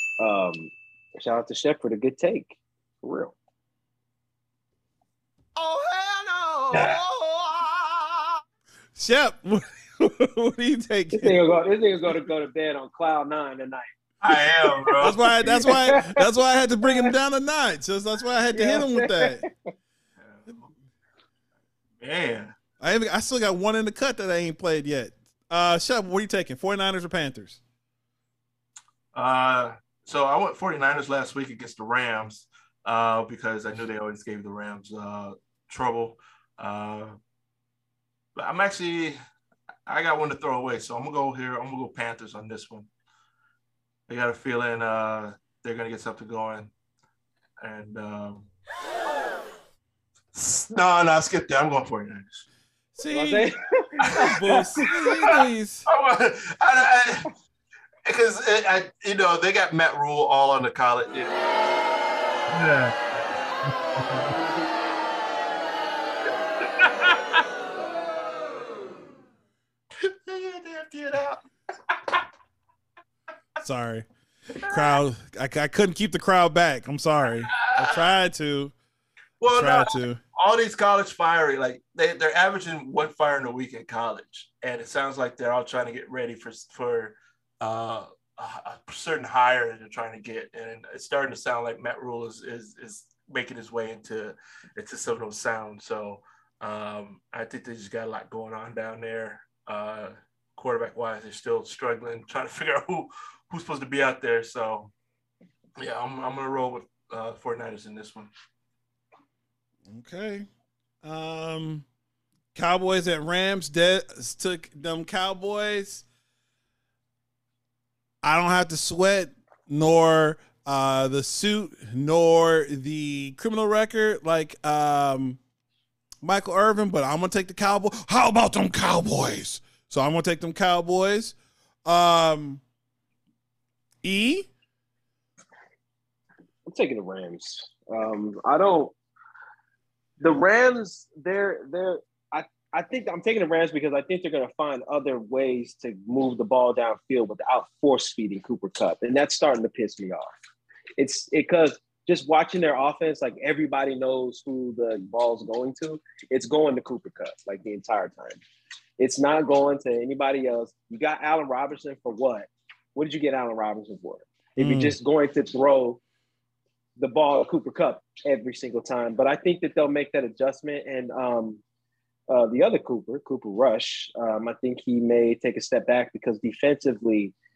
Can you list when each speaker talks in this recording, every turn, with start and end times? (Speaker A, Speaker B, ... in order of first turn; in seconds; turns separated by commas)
Speaker A: 0.2-3.3, Speaker B: 5.5-8.2, Speaker C: 8.9-11.4, Speaker A: 11.1-13.9, Speaker D: 14.2-15.4, Speaker C: 15.0-19.4, Speaker A: 15.4-16.2, Speaker A: 18.5-19.5, Speaker D: 20.2-20.6, Speaker D: 22.0-22.6, Speaker C: 22.8-27.6, Speaker D: 29.1-37.2, Speaker D: 38.4-39.2, Speaker D: 39.9-42.9, Speaker D: 44.1-46.7, Speaker D: 47.6-48.5, Speaker D: 50.3-52.5, Speaker C: 52.9-53.5, Speaker A: 53.1-54.9, Speaker D: 54.1-57.3, Speaker C: 54.2-55.9, Speaker D: 58.0-61.4, Speaker D: 62.5-63.0, Speaker D: 63.6-64.4, Speaker D: 66.6-67.4, Speaker D: 70.0-71.4, Speaker D: 71.9-72.2, Speaker C: 73.6-74.1, Speaker C: 74.6-78.7, Speaker D: 74.7-75.0, Speaker D: 77.5-78.0, Speaker D: 79.4-104.9, Speaker C: 79.5-80.2, Speaker D: 105.8-108.3, Speaker C: 109.9-110.5, Speaker C: 111.0-111.8, Speaker C: 112.5-116.0, Speaker C: 118.2-125.4, Speaker C: 126.2-132.6, Speaker C: 134.0-134.5, Speaker A: 136.7-138.9, Speaker A: 140.2-150.3, Speaker A: 151.0-158.4, Speaker A: 159.0-166.0, Speaker C: 164.6-164.9, Speaker A: 167.0-171.6, Speaker A: 172.3-177.3